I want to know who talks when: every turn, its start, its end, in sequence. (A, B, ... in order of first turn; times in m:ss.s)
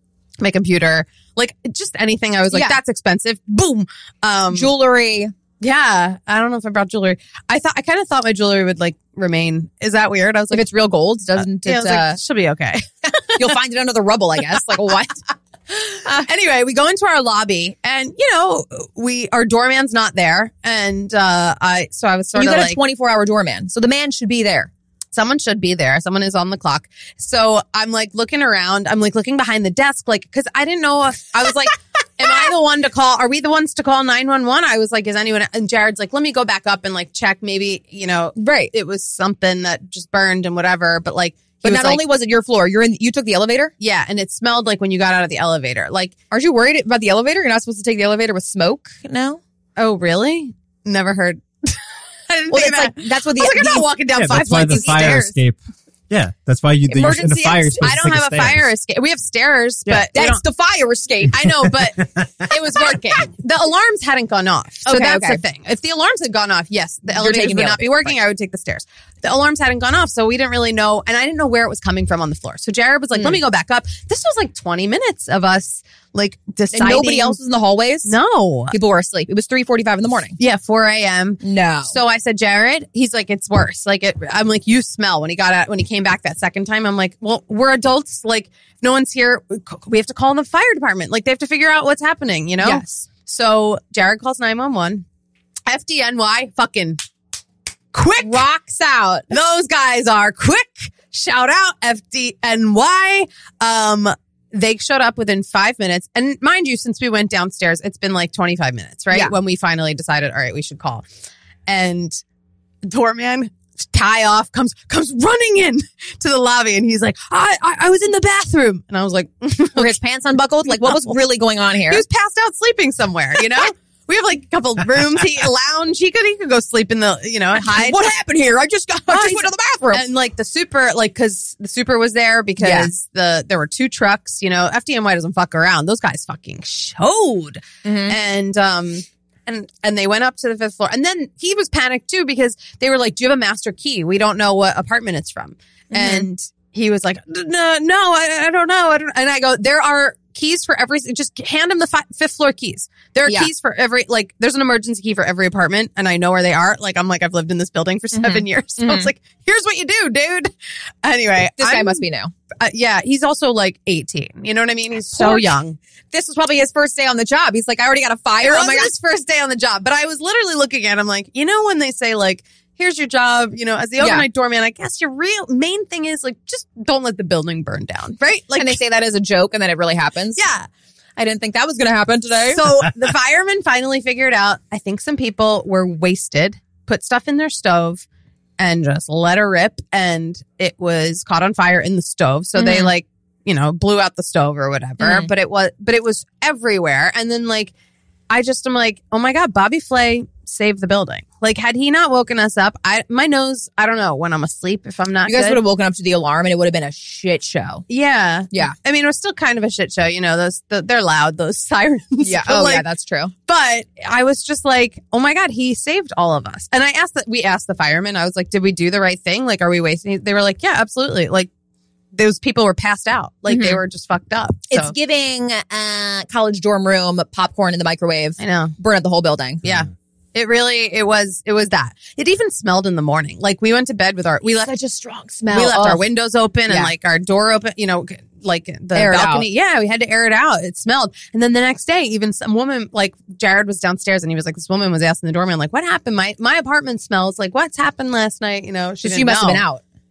0:00.4-0:04.7 A
0:02.5-0:02.8 B
0:04.5-0:05.3 B
0:05.6-0:10.6 A
0:10.5-0:12.2 B
0:11.4-0:13.6 A
0:13.4-0:15.2 B
0:15.7-0:22.8 A
0:22.4-0:24.7 B
0:25.1-0:42.0 A
0:38.4-0:38.7 B
0:41.6-0:43.7 B
0:43.8-0:46.2 A
0:46.3-0:49.4 B
0:49.8-0:55.4 A
0:52.5-0:53.9 B
0:54.2-0:55.6 C
0:54.6-0:55.3 B
0:56.1-0:58.6 C
0:56.9-1:00.4 A
0:56.9-0:57.7 B
1:00.1-1:01.4 B
1:01.3-1:17.4 A
1:04.9-1:05.4 B
1:07.1-1:08.1 B
1:16.7-1:18.2 B
1:18.1-1:18.7 A
1:18.7-1:20.4 B
1:20.4-1:35.0 A
1:21.4-1:22.0 B
1:32.6-1:33.1 B
1:35.7-1:37.0 A
1:37.9-1:38.5 A
1:38.2-1:39.3 B
1:39.3-1:51.0 A
1:51.7-1:52.2 A
1:52.8-2:00.0 A
1:59.7-2:02.0 B
2:00.7-2:01.2 A
2:01.9-2:08.1 A
2:07.6-2:10.0 B
2:09.1-2:40.5 A
2:12.6-2:12.9 B
2:17.8-2:18.2 B
2:25.9-2:26.3 B
2:38.1-2:39.1 B
2:41.0-2:42.0 A
2:41.6-2:42.3 B
2:42.6-2:45.8 A
2:45.1-2:45.5 B
2:46.1-2:48.9 B
2:48.4-2:58.8 A
2:54.0-2:54.3 B
2:58.6-3:00.4 B
3:00.4-3:00.7 A
3:01.2-3:02.7 B
3:02.5-3:08.0 A
3:08.6-3:17.7 A
3:12.6-3:12.9 B
3:15.0-3:15.3 B
3:18.3-3:25.6 A
3:25.3-3:27.8 B
3:27.9-3:32.9 A
3:32.2-3:33.3 B
3:33.5-3:41.5 A
3:42.1-3:44.9 A
3:43.5-3:43.8 B
3:44.7-3:49.6 B
3:48.4-3:48.7 A
3:49.6-3:54.7 A
3:54.6-3:56.0 B
3:55.5-4:09.6 A
3:56.7-3:56.9 B
3:58.9-3:59.5 B
4:09.0-4:09.8 B